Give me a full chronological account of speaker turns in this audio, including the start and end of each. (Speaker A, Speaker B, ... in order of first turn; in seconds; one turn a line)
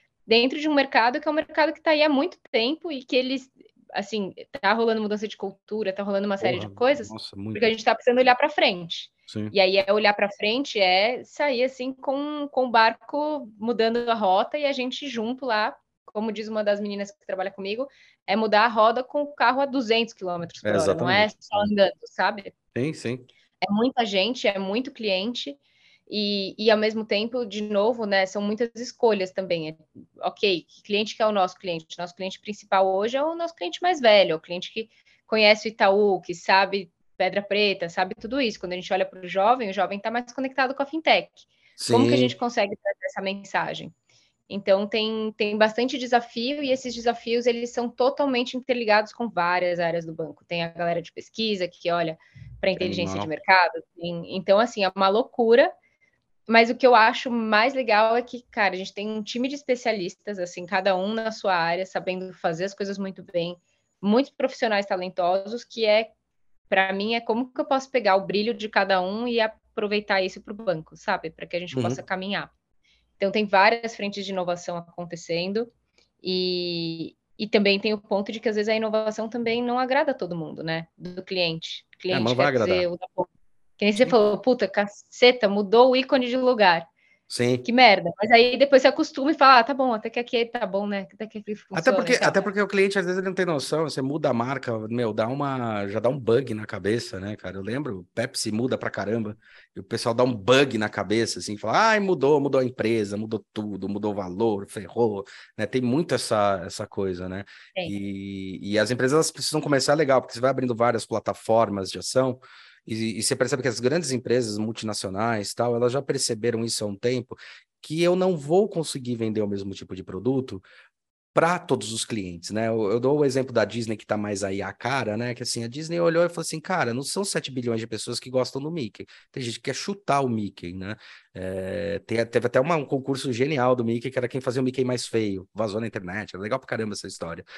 Speaker A: 0.3-22.5
Speaker B: 6.4-7.8
Speaker B: 9.3-9.5
Speaker B: 20.6-21.7
Speaker B: 22.8-23.3
Speaker A: 23.6-44.0
Speaker B: 41.8-42.4
Speaker A: 44.5-55.7
Speaker B: 52.8-53.3
Speaker A: 56.5-66.1
Speaker A: 66.7-72.5
Speaker B: 71.7-72.0
Speaker A: 73.2-75.7
Speaker A: 76.2-86.9
Speaker B: 82.1-82.9
Speaker B: 87.3-87.7
Speaker A: 87.7-92.5
Speaker B: 91.7-120.7
Speaker B: 121.3-137.4